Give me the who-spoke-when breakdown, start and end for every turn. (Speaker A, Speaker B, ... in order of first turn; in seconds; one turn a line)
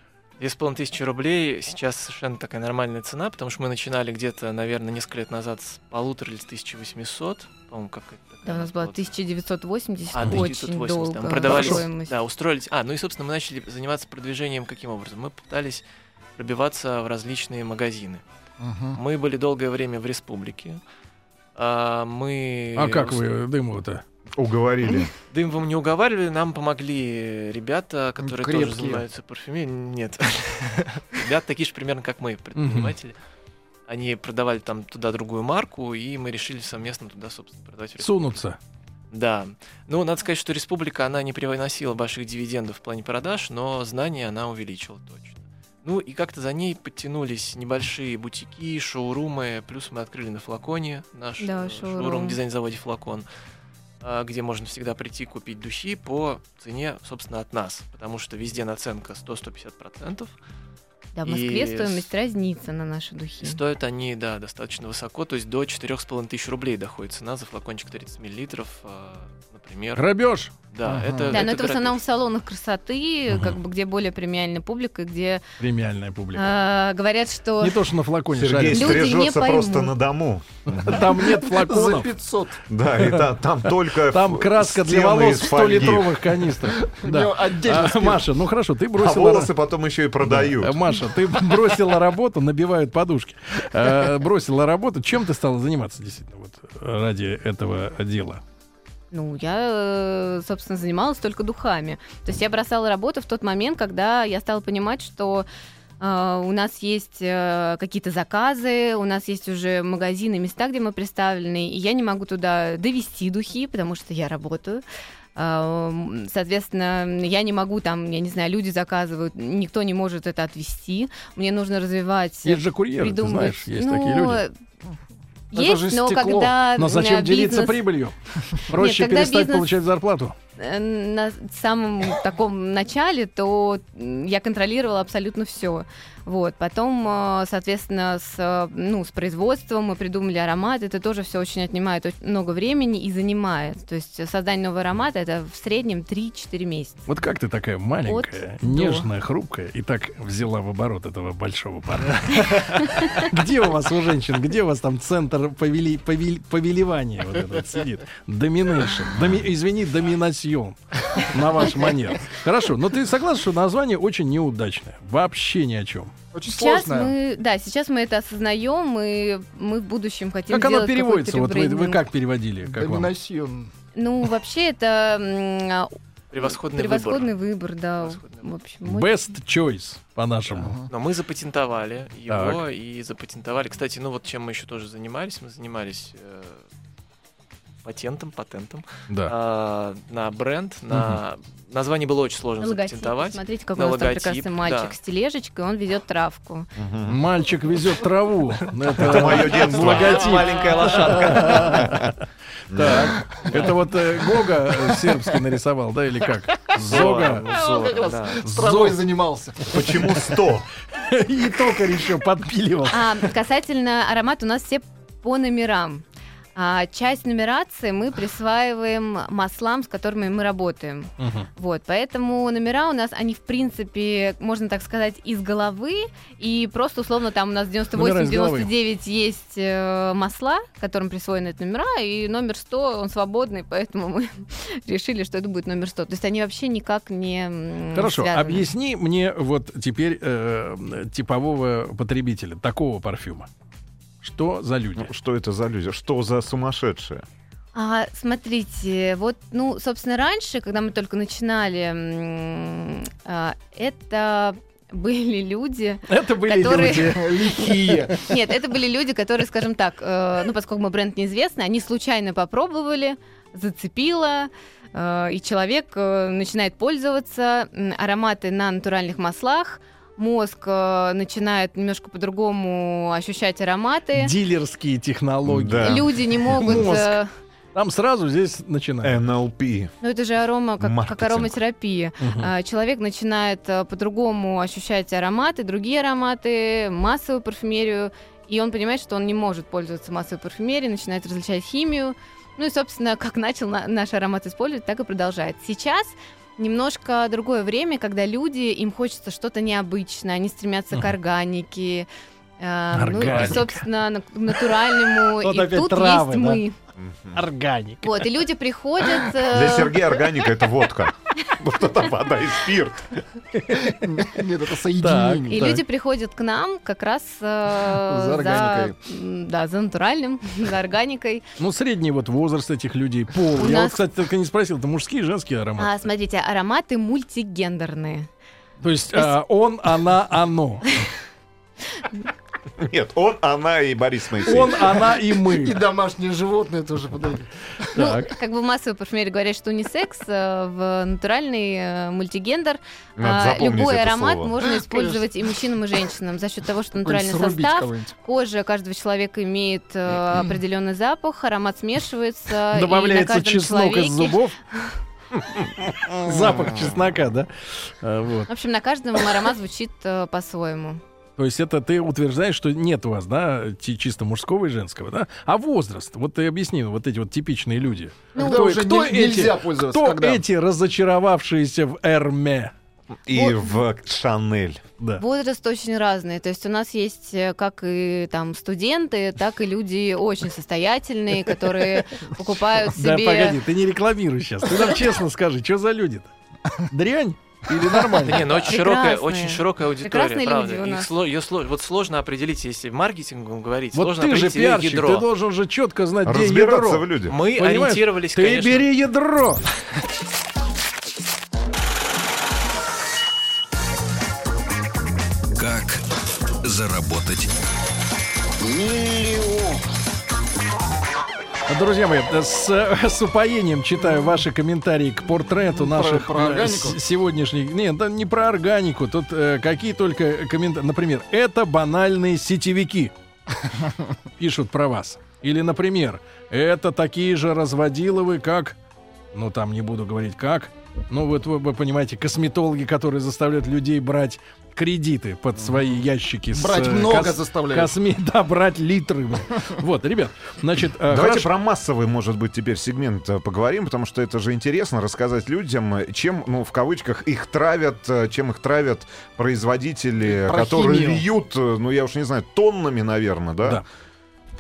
Speaker A: 0.4-9.1
Speaker B: 8.5-12.1
Speaker A: 10.1-15.8
Speaker C: 10.2-10.5
Speaker C: 11.5-11.8
Speaker A: 16.4-18.2
Speaker D: 18.6-19.0
Speaker A: 18.9-20.8
Speaker A: 21.6-23.3
Speaker C: 22.8-24.0
Speaker E: 24.4-25.1
Speaker A: 25.3-33.2
Speaker D: 28.2-29.0
Speaker C: 32.6-33.0
Speaker A: 33.9-38.4
Speaker C: 38.0-38.6
Speaker A: 39.1-53.3
Speaker B: 51.4-52.4
Speaker A: 54.0-60.3
Speaker B: 61.1-63.6
Speaker A: 61.3-62.1
Speaker A: 63.4-70.0
Speaker C: 70.0-70.5
Speaker A: 70.7-72.0
Speaker D: 70.8-71.4
Speaker B: 71.3-75.4
Speaker C: 73.3-73.6
Speaker C: 75.6-76.5
Speaker B: 76.3-77.8
Speaker C: 77.6-79.1
Speaker E: 78.3-81.1
Speaker B: 78.7-79.9
Speaker C: 80.7-82.1
Speaker D: 81.2-82.6
Speaker E: 82.7-86.2
Speaker C: 84.1-89.5
Speaker D: 86.8-88.3
Speaker E: 89.0-90.8
Speaker C: 90.2-98.4
Speaker B: 99.1-105.5
Speaker B: 106.0-114.8
Speaker B: 115.4-124.5
Speaker C: 122.5-124.4
Speaker B: 125.5-127.9
Speaker D: 125.5-126.6
Speaker C: 126.8-130.4
Speaker B: 128.7-129.7
Speaker B: 130.6-147.1
Speaker C: 147.1-166.1
Speaker B: 148.1-149.1
Speaker B: 152.8-153.3
Speaker D: 166.3-167.1
Speaker B: 166.4-172.0
Speaker C: 170.5-173.1
Speaker D: 172.6-173.7
Speaker B: 174.0-179.2
Speaker A: 176.3-177.3
Speaker A: 178.0-178.5
Speaker C: 178.8-180.8
Speaker D: 180.5-180.9
Speaker A: 180.9-186.6
Speaker C: 182.3-182.6
Speaker A: 187.8-195.0
Speaker C: 190.9-191.2
Speaker B: 192.6-196.7
Speaker E: 196.8-197.3
Speaker C: 197.1-207.5
Speaker A: 198.9-201.9
Speaker E: 199.0-202.1
Speaker E: 202.7-203.2
Speaker A: 203.3-203.8
Speaker A: 206.7-208.4
Speaker D: 206.9-210.0
Speaker C: 208.4-209.0
Speaker E: 209.7-210.7
Speaker C: 210.9-213.3
Speaker B: 212.9-238.7
Speaker C: 221.2-221.5
Speaker C: 227.9-228.7
Speaker C: 237.9-243.5
Speaker C: 244.2-245.1
Speaker E: 245.0-247.2
Speaker B: 247.8-274.3
Speaker C: 256.1-257.7
Speaker D: 256.8-258.3
Speaker C: 274.1-277.2
Speaker E: 275.4-276.8
Speaker B: 275.8-277.3
Speaker C: 277.8-279.2
Speaker E: 279.0-279.9
Speaker B: 280.0-302.1
Speaker E: 280.8-281.6
Speaker C: 282.2-282.5
Speaker B: 302.6-306.8
Speaker C: 302.9-303.8
Speaker A: 303.3-303.6
Speaker C: 304.6-306.6
Speaker E: 307.0-307.4
Speaker C: 307.3-308.2
Speaker B: 308.0-310.4
Speaker E: 309.5-313.2
Speaker D: 313.9-315.7
Speaker C: 315.0-315.8
Speaker B: 315.5-321.4
Speaker D: 317.9-319.0
Speaker C: 321.6-326.1
Speaker B: 323.6-324.0
Speaker B: 325.8-328.3
Speaker C: 328.8-330.9
Speaker E: 332.8-334.8
Speaker C: 334.4-335.8
Speaker D: 334.8-337.5
Speaker C: 337.9-338.3
Speaker B: 337.9-354.9
Speaker E: 343.2-344.5
Speaker D: 344.6-345.2
Speaker D: 347.0-348.1
Speaker C: 352.7-354.6
Speaker C: 355.8-358.5
Speaker B: 358.5-361.0
Speaker C: 361.4-372.7
Speaker D: 368.3-370.4
Speaker E: 373.3-374.8
Speaker B: 375.2-383.6
Speaker C: 382.9-386.3
Speaker C: 386.9-388.6
Speaker D: 387.9-388.3
Speaker A: 388.1-395.3
Speaker B: 388.6-391.1
Speaker C: 393.9-399.7
Speaker E: 396.2-397.4
Speaker A: 397.3-398.9
Speaker F: 405.6-406.1
Speaker F: 406.6-407.5
Speaker F: 408.6-409.8
Speaker C: 411.7-423.1
Speaker D: 415.7-417.0
Speaker C: 424.4-428.8
Speaker C: 429.3-441.5
Speaker D: 435.6-435.9
Speaker D: 436.5-437.9
Speaker E: 441.1-453.8
Speaker D: 450.2-451.2